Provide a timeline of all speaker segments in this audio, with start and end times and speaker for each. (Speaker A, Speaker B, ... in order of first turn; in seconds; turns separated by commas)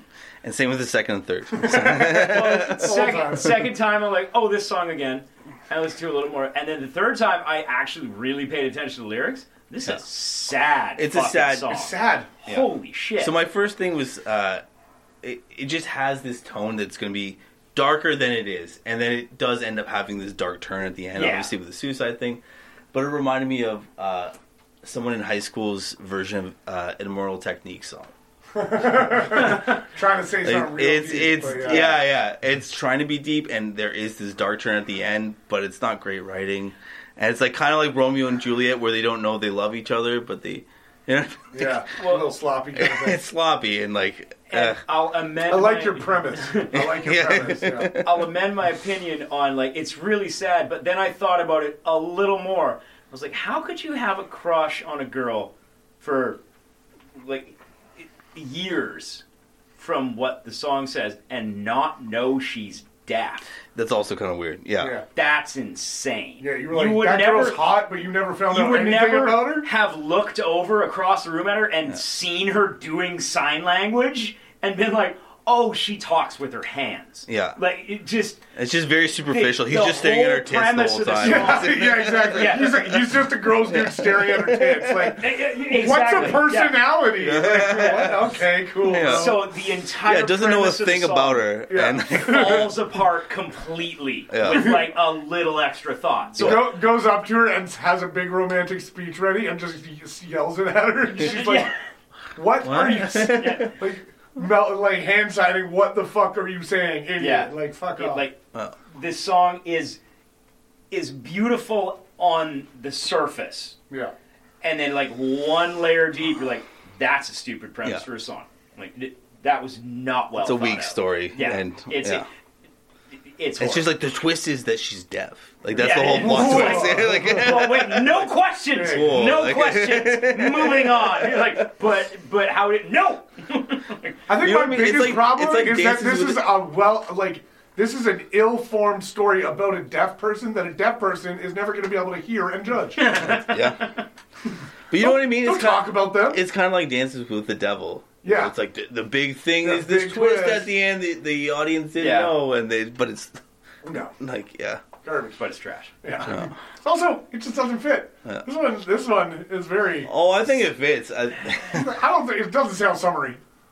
Speaker A: 0.4-2.9, Speaker B: 1.6-3.7, Speaker C: 2.0-13.3, Speaker A: 11.0-11.8, Speaker B: 11.7-12.3, Speaker A: 13.2-14.6, Speaker A: 15.2-22.4, Speaker C: 21.1-21.5, Speaker A: 22.9-28.1, Speaker B: 28.6-32.0, Speaker A: 29.3-29.6, Speaker A: 30.4-41.8, Speaker B: 41.5-43.2, Speaker C: 42.0-42.3, Speaker A: 42.8-44.8, Speaker C: 44.5-46.8, Speaker B: 45.5-48.0, Speaker A: 46.8-48.2, Speaker C: 48.0-56.4, Speaker C: 57.2-59.2, Speaker C: 59.8-63.5, Speaker A: 63.7-65.0, Speaker B: 64.8-65.0, Speaker C: 65.1-67.7, Speaker B: 66.4-69.7, Speaker C: 68.5-78.4, Speaker A: 77.3-77.6, Speaker A: 78.5-85.2, Speaker C: 79.3-83.0, Speaker B: 81.2-89.4, Speaker C: 85.2-86.9, Speaker A: 87.2-89.4, Speaker C: 89.0-91.5, Speaker A: 90.0-92.7, Speaker B: 91.7-92.7, Speaker C: 92.1-96.7, Speaker A: 94.3-94.8, Speaker A: 96.4-96.7, Speaker B: 96.4-101.8, Speaker C: 101.2-101.8, Speaker B: 102.3-108.2, Speaker A: 102.6-103.7, Speaker C: 103.3-103.7, Speaker C: 107.2-108.4, Speaker C: 108.9-110.0, Speaker C: 110.9-113.8, Speaker C: 114.6-122.3, Speaker A: 120.4-122.3, Speaker C: 123.2-123.9, Speaker A: 123.6-131.6, Speaker C: 125.7-134.2, Speaker B: 125.8-127.6, Speaker B: 128.8-129.1, Speaker B: 134.3-143.1, Speaker A: 134.4-136.5, Speaker C: 143.0-144.1, Speaker A: 143.4-143.8, Speaker A: 144.9-153.4, Speaker B: 145.0-146.4, Speaker B: 148.2-148.5, Speaker B: 149.6-150.7, Speaker C: 152.0-152.3, Speaker B: 153.8-154.1, Speaker A: 154.2-154.8, Speaker B: 155.0-155.4, Speaker C: 155.4-155.9, Speaker B: 156.0-160.1, Speaker A: 156.3-156.5, Speaker A: 160.1-161.9, Speaker B: 161.7-163.4